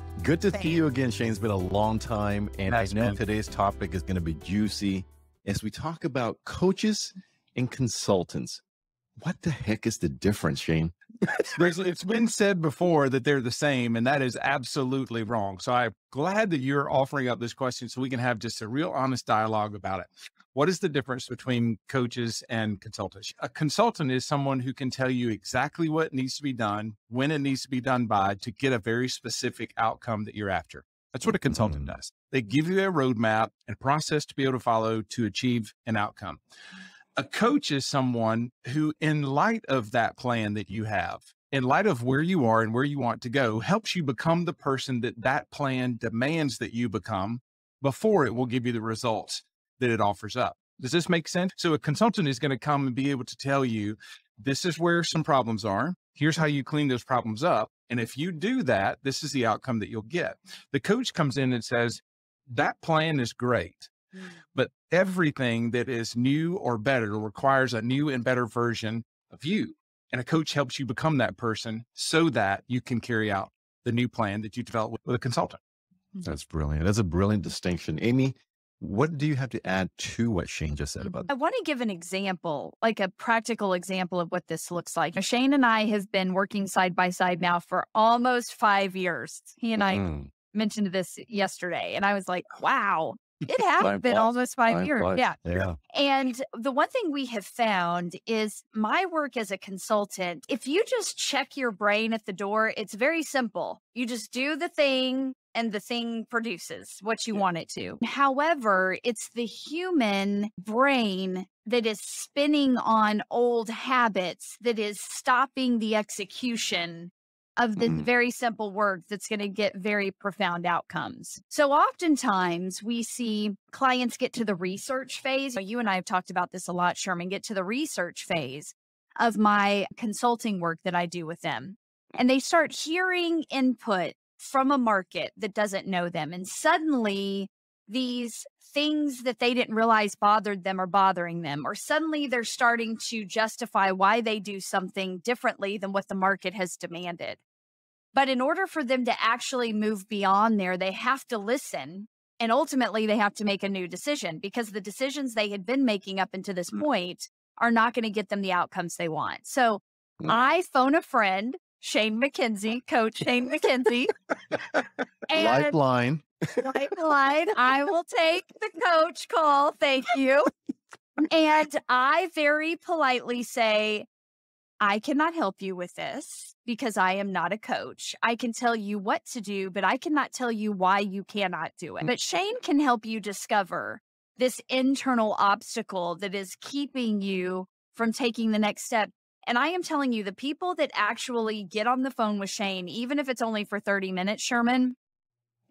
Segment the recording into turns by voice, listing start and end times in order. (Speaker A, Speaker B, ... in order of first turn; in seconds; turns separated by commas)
Speaker A: 0.2-8.6, Speaker B: 0.5-0.8, Speaker C: 2.7-3.2, Speaker A: 9.2-10.9, Speaker C: 11.5-36.4, Speaker A: 31.5-31.9, Speaker C: 37.1-63.9, Speaker C: 64.5-75.6, Speaker A: 76.2-81.3, Speaker B: 81.3-95.4, Speaker A: 89.8-90.3, Speaker A: 93.8-95.8, Speaker B: 95.9-147.4, Speaker A: 117.8-118.0, Speaker B: 148.1-164.1, Speaker B: 165.3-165.8, Speaker A: 165.3-166.7, Speaker B: 166.6-170.5, Speaker B: 171.2-174.1, Speaker B: 174.8-194.9